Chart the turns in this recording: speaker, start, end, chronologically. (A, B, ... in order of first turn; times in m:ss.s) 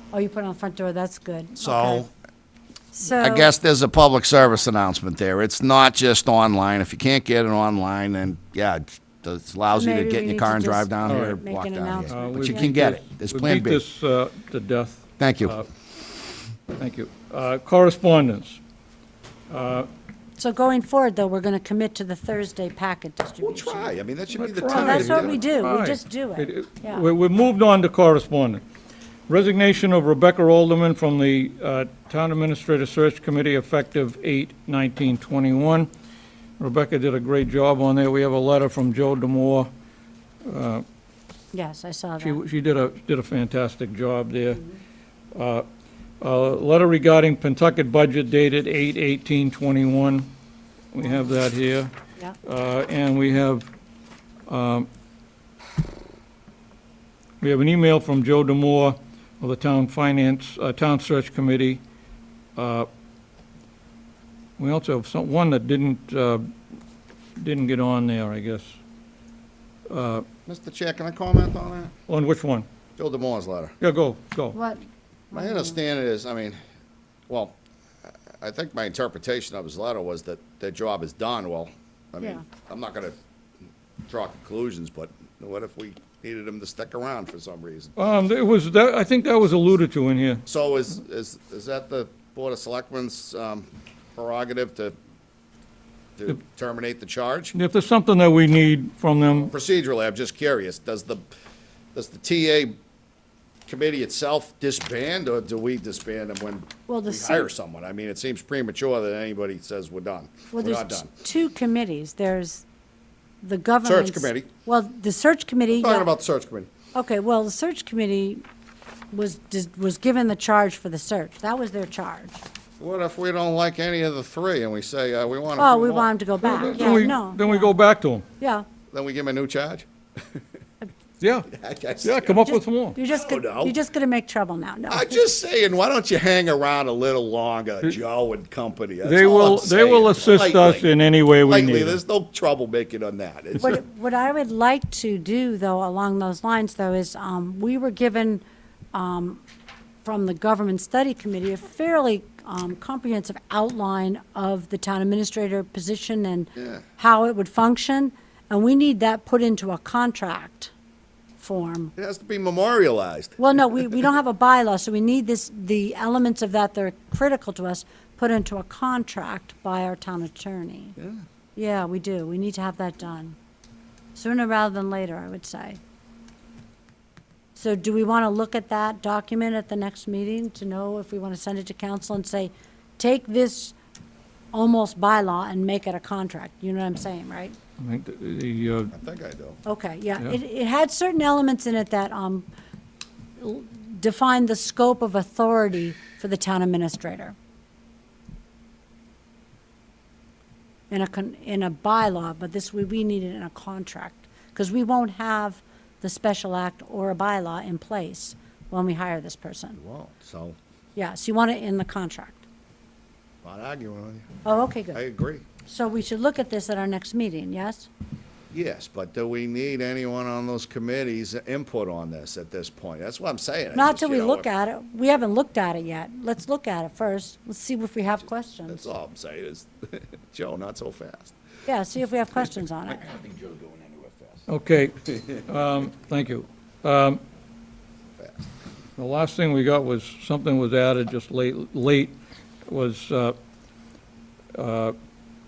0:00.1-0:02.0 A
0:01.6-0:02.1 B
0:02.9-0:03.5 A
0:03.1-0:13.8 B
0:09.7-0:12.7 A
0:11.0-0:11.4 C
0:12.1-0:15.7 C
0:15.2-0:15.6 B
0:16.8-0:18.6 C
0:19.5-0:19.9 C
0:20.4-0:23.9 A
0:23.4-0:25.4 B
0:24.3-0:28.6 C
0:24.7-0:27.0 A
0:29.3-0:35.9 C
0:36.6-0:39.7 C
0:40.4-0:40.8 C
0:41.5-0:42.4 A
0:42.2-0:44.6 C
0:45.3-0:45.6 C
0:46.2-0:50.3 C
0:50.9-0:51.9 C
0:52.4-0:53.7 C
0:54.5-0:54.9 C
0:57.4-1:01.8 C
1:02.6-1:02.9 C
1:04.6-1:06.4 C
1:07.4-1:08.8 C
1:09.9-1:10.2 C
1:10.4-1:11.9 B
1:12.1-1:12.7 C
1:13.0-1:13.7 B
1:13.8-1:14.6 C
1:14.5-1:15.8 A
1:15.3-1:16.6 B
1:17.3-1:17.6 B
1:18.4-1:23.2 B
1:24.1-1:27.9 B
1:28.0-1:30.4 C
1:30.4-1:34.9 B
1:36.2-1:37.5 B
1:37.5-1:39.5 C
1:39.5-1:41.3 B
1:41.9-1:42.8 B
1:43.7-1:51.1 B
1:46.9-1:47.5 A
1:50.5-1:52.6 A
1:53.4-1:56.1 A
1:53.8-1:54.5 B
1:55.7-1:56.7 B
1:56.9-1:58.4 A
1:59.1-2:02.4 A
2:02.8-2:06.1 B
2:05.6-2:07.7 A
2:06.4-2:08.2 C
2:06.6-2:07.0 B
2:08.4-2:08.7 A
2:08.9-2:09.9 B
2:11.2-2:11.5 C
2:11.5-2:12.4 B
2:12.0-2:13.0 C
2:12.4-2:15.2 A
2:13.0-2:13.8 B
2:14.9-2:20.9 B
2:19.0-2:22.0 C
2:21.4-2:23.8 B
2:23.6-2:29.4 A
2:30.0-2:40.7 A
2:36.6-2:36.8 B
2:41.4-2:41.9 A
2:42.0-2:43.9 B
2:43.4-2:51.0 A
2:51.6-2:53.4 A
2:54.1-2:55.8 A
2:57.6-3:03.7 A
3:04.5-3:07.5 A
3:07.8-3:08.9 C
3:08.9-3:09.6 B
3:09.6-3:12.5 A
3:13.4-3:17.4 A
3:20.9-3:29.8 A
3:29.7-3:30.6 B
3:31.0-3:32.4 A
3:33.4-3:35.4 B
3:34.4-3:35.0 A
3:35.6-3:37.9 A
3:38.5-3:44.5 B
3:43.7-3:48.8 A
3:48.7-3:51.3 B
3:51.6-3:53.0 A
3:53.0-3:54.4 B
3:54.5-3:57.2 C
3:58.2-3:58.5 B
3:59.0-4:02.1 C
4:02.7-4:03.3 C
4:04.5-4:04.9 C